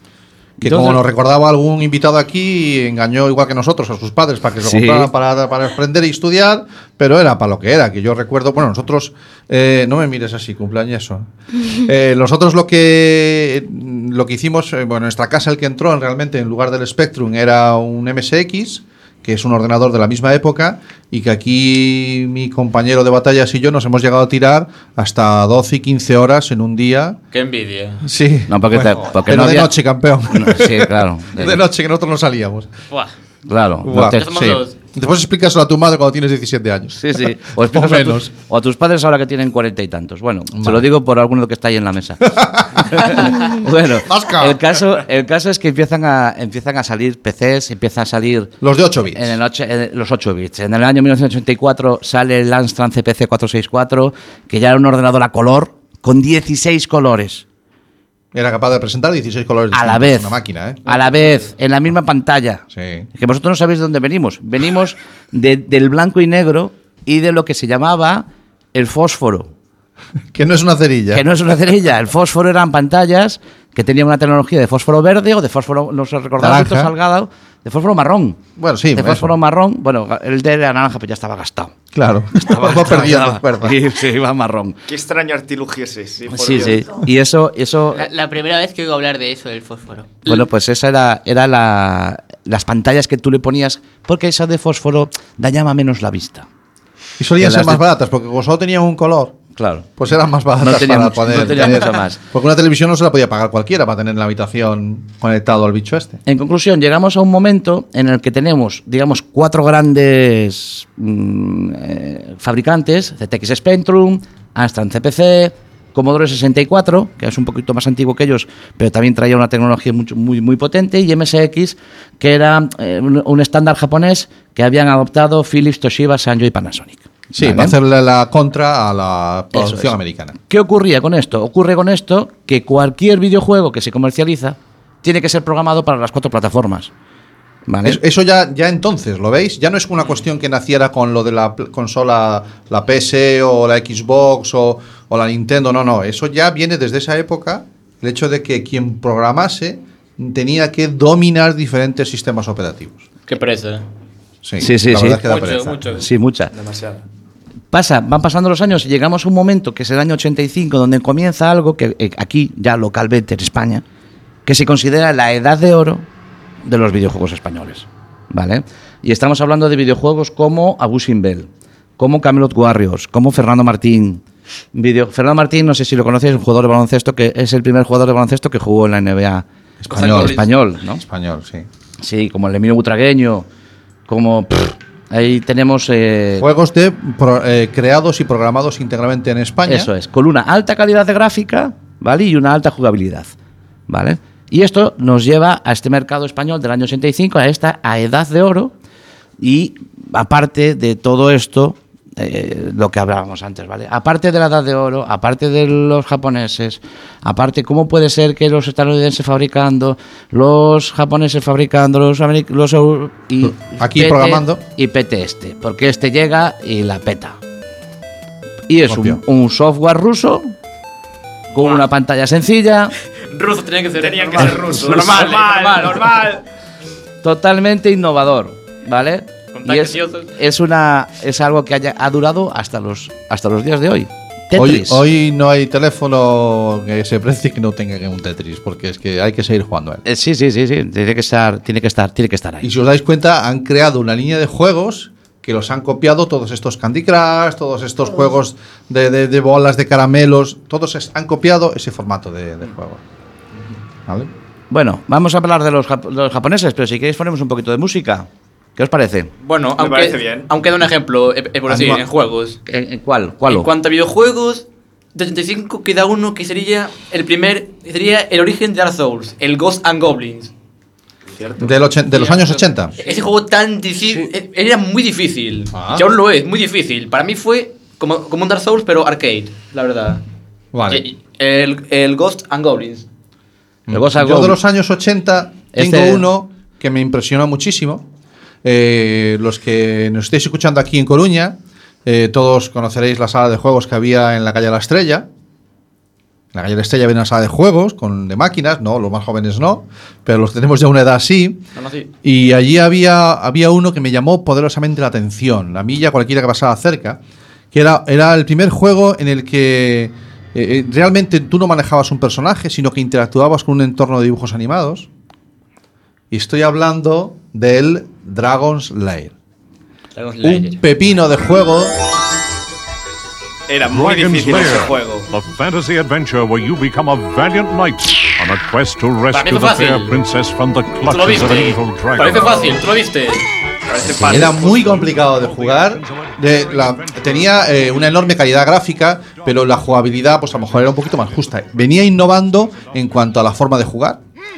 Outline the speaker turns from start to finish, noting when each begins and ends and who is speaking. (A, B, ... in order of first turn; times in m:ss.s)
0:00.6-0:01.0 A
0:00.6-0:27.2 B
0:04.6-0:05.1 A
0:27.3-0:28.0 C
0:28.0-0:32.7 B
0:28.5-0:29.7 A
0:30.3-0:31.6 A
0:33.5-0:34.3 A
0:33.8-0:38.3 B
0:34.0-0:34.7 C
0:37.0-0:48.5 A
0:40.6-0:40.9 B
0:42.2-0:44.8 B
0:48.6-0:49.4 B
0:49.1-0:57.4 A
0:58.3-1:00.8 B
0:59.7-1:09.5 A
1:02.7-1:03.1 B
1:10.3-1:11.2 B
1:11.1-1:18.4 A
1:16.4-1:16.9 B
1:18.6-1:19.3 B
1:18.9-1:21.8 A
1:21.9-1:23.8 B
1:22.4-1:24.8 A
1:24.9-1:27.0 D
1:26.3-1:28.1 A
1:27.9-1:30.2 E
1:30.2-1:36.5 A
1:37.2-1:39.4 B
1:37.4-1:37.8 A
1:39.6-1:39.9 A
1:40.0-1:46.2 B
1:40.6-1:42.2 A
1:46.2-2:07.8 A
2:07.3-2:10.4 B
2:09.5-2:09.9 A
2:10.5-2:16.9 A
2:17.7-2:18.0 A
2:17.8-2:33.1 B
2:33.3-2:33.8 C
2:34.4-2:35.9 B
2:34.6-2:35.2 A
2:35.2-2:36.0 C
2:35.9-2:36.5 A
2:36.6-2:36.9 D
2:37.7-2:43.8 A
2:44.4-2:46.1 A
2:46.6-2:54.2 A
2:54.7-3:01.0 A
2:59.8-3:01.7 B
3:00.0-3:00.4 C
3:02.0-3:03.4 A
3:04.1-3:06.4 A
3:06.4-3:09.9 B
3:09.6-3:13.3 A
3:13.9-3:18.7 A
3:19.4-3:37.4 A
3:33.4-3:34.6 B
3:38.7-3:40.5 A
3:38.9-3:39.2 B
3:41.5-3:42.9 A
3:41.6-3:41.8 C
3:43.3-3:46.3 C
3:44.0-3:46.4 D
3:47.2-3:55.0 A
3:49.5-3:50.3 C
3:54.6-4:00.0 B
4:00.0-4:02.7 A
4:02.6-4:13.0 B
4:14.7-4:19.3 A
4:19.4-4:22.6 C
4:19.8-4:20.5 D
4:21.7-4:22.0 B
4:22.6-4:23.7 A
4:23.5-4:30.5 C
4:31.6-4:33.0 B
4:32.1-4:40.2 C
4:35.7-4:36.1 B
4:40.7-4:41.0 B
4:40.9-4:43.1 C
4:43.9-4:48.1 B
4:43.9-4:44.6 A
4:45.7-4:46.2 A
4:48.6-4:55.3 B
4:56.5-5:01.6 B
5:01.8-5:02.1 C
5:02.2-5:07.2 B
5:07.7-5:15.1 B
5:16.3-5:19.3 B
5:20.2-5:20.8 C
5:20.4-5:21.9 B
5:23.7-5:25.3 D
5:23.9-5:32.9 F
5:29.3-5:30.2 C
5:31.1-5:33.4 C
5:33.9-5:35.0 D
5:34.0-5:34.6 A
5:34.2-5:44.2 B
5:34.6-5:38.5 F